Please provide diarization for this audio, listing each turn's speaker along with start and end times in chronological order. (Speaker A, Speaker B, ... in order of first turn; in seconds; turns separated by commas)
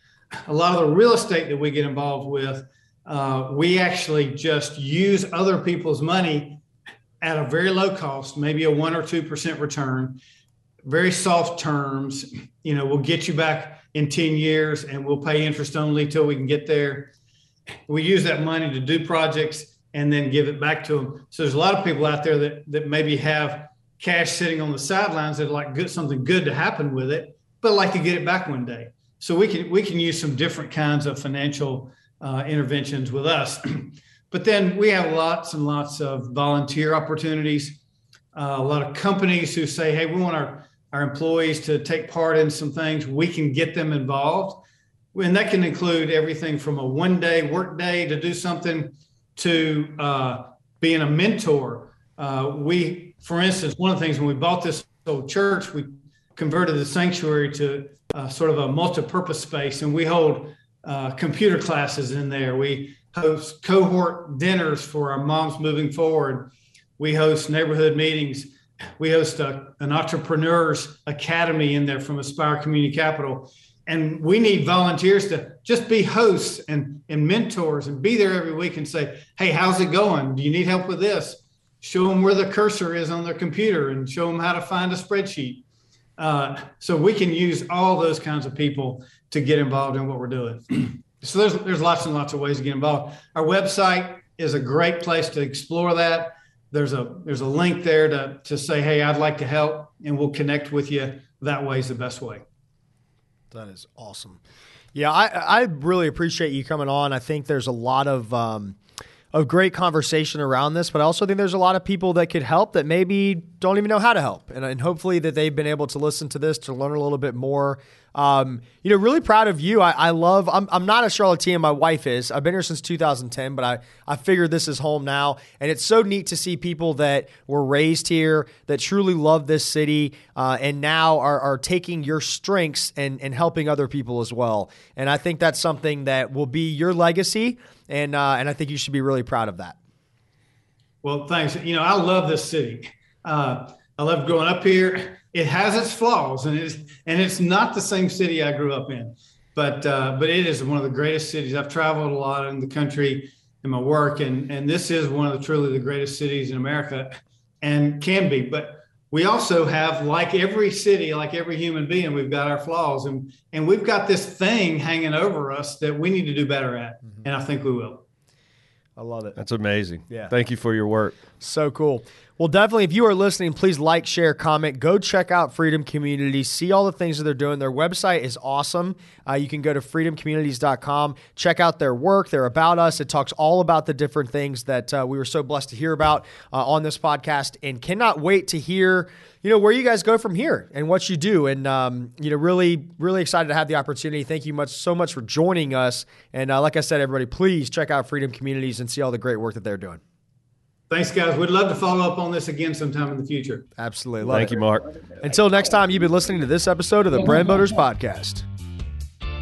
Speaker A: 0.5-6.6, Speaker A: 7.2-10.2, Speaker A: 10.8-17.1, Speaker A: 17.9-37.8, Speaker A: 38.3-85.6, Speaker A: 86.2-102.4, Speaker B: 103.5-104.4, Speaker B: 104.9-108.8, Speaker B: 109.3-139.8, Speaker A: 141.0-168.0, Speaker B: 169.0-169.3, Speaker C: 169.3-171.2, Speaker B: 171.4-200.0, Speaker A: 200.9-203.7, Speaker B: 203.8-204.6, Speaker C: 204.2-205.0, Speaker B: 205.2-208.4